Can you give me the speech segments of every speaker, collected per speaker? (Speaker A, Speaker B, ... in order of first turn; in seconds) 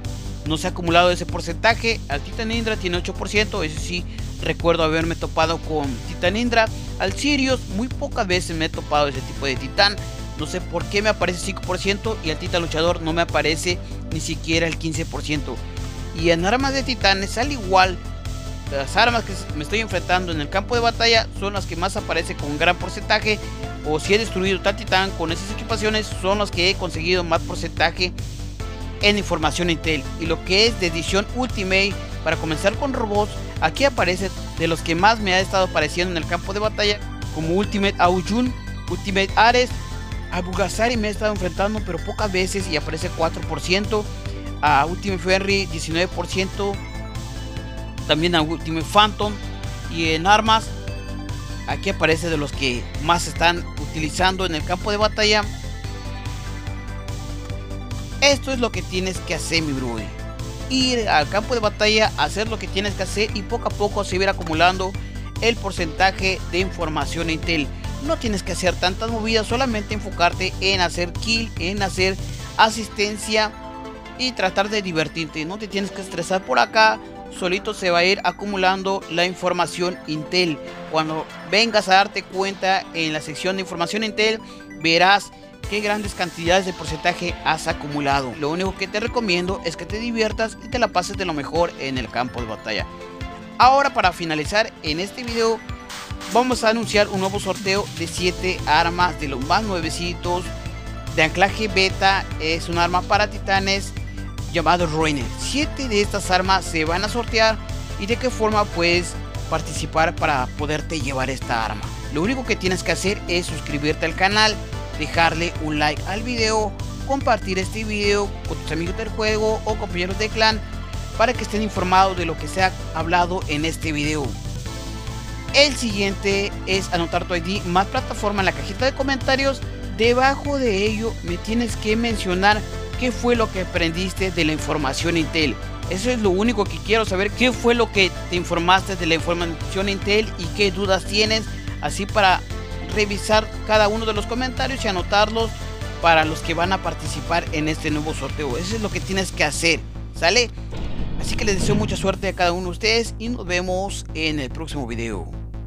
Speaker A: 0.5-15.6, 16.1-18.0, 18.7-28.1, 29.0-39.8, 40.3-44.1, 44.6-46.8, 48.0-50.7, 51.7-55.5, 58.2-60.2, 60.7-73.5, 74.2-92.9, 93.6-95.6, 96.3-100.5, 101.1-104.0, 104.5-120.6, 121.2-124.4, 125.5-150.5, 151.2-155.4